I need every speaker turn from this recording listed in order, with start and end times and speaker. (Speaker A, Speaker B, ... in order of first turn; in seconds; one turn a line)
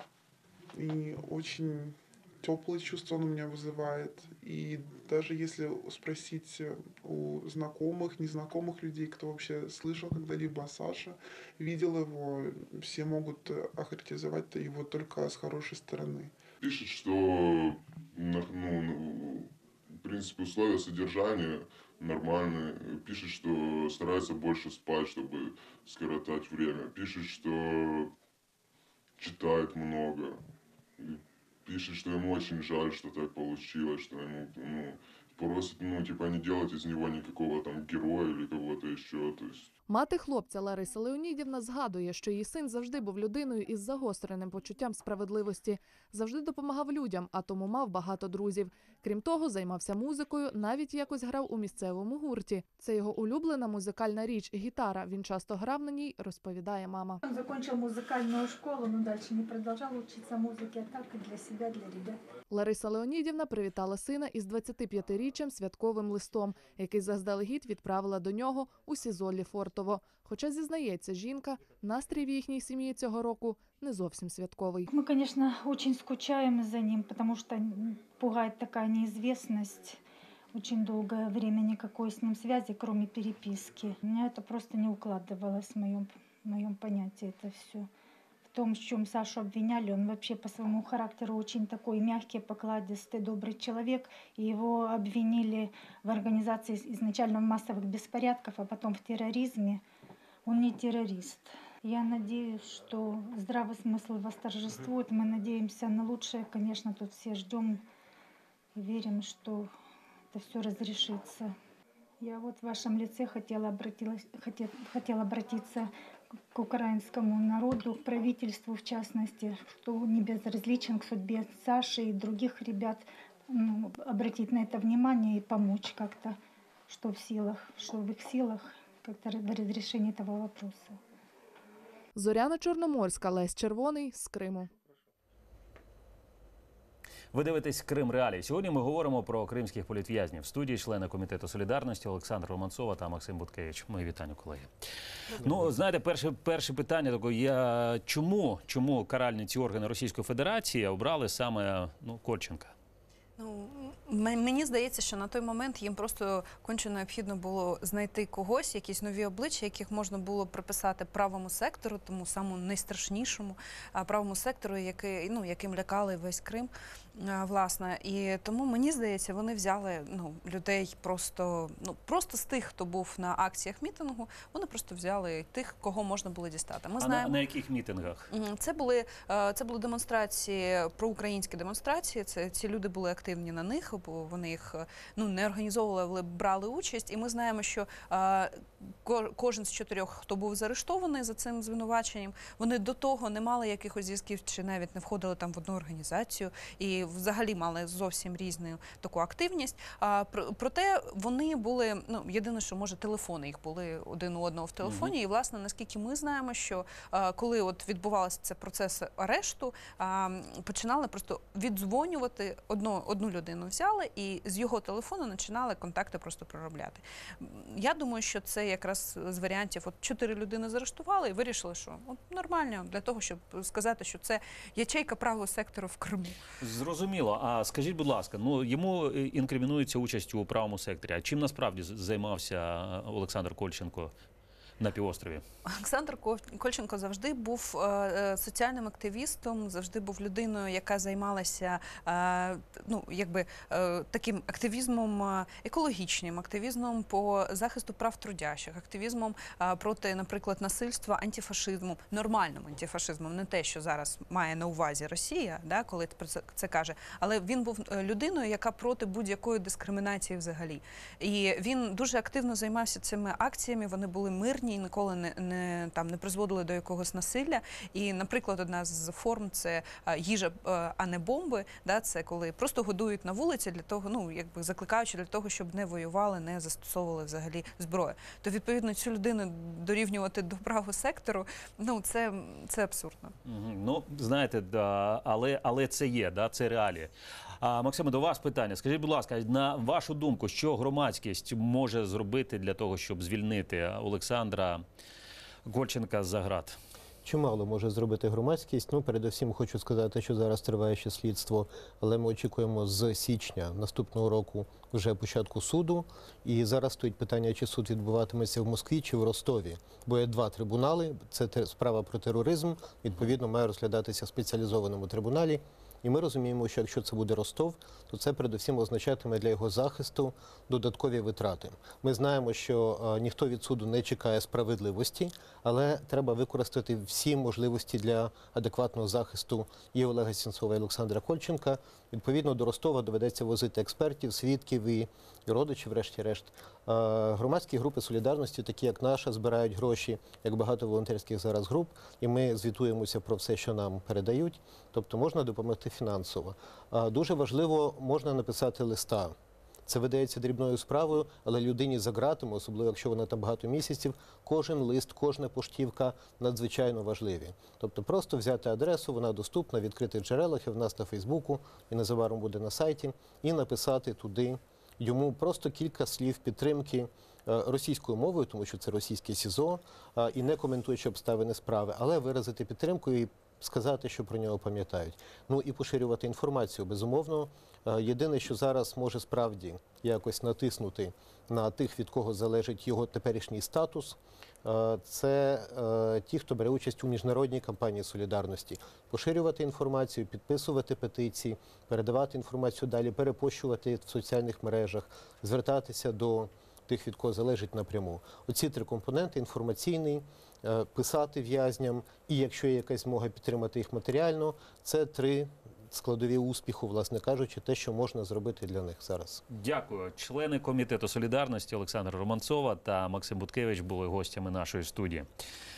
Speaker A: 0.7-16.3
Speaker B: 16.6-28.1
Speaker B: 29.2-30.4
Speaker B: 31.0-39.7
Speaker C: 39.9-57.2
Speaker D: 57.2-62.2
Speaker C: 62.5-74.9
Speaker D: 74.9-80.0
Speaker D: 80.5-87.9
Speaker D: 88.4-99.8
Speaker D: 100.5-107.8
Speaker D: 108.7-109.7
Speaker D: 110.3-111.5
Speaker D: 112.2-115.9
Speaker D: 116.5-126.4
Speaker D: 126.9-131.0
Speaker C: 132.2-134.7
Speaker E: 137.3-144.7
Speaker E: 145.4-152.7
Speaker F: 153.4-177.4
Speaker E: 177.0-178.3
Speaker F: 178.3-226.4
Speaker E: 204.8-205.1
Speaker E: 226.6-234.1
Speaker E: 234.8-235.4
Speaker F: 235.7-283.3
Speaker E: 283.4-294.8
Speaker E: 295.6-296.8
Speaker G: 297.2-349.3
Speaker G: 349.9-409.4
Speaker E: 409.5-415.3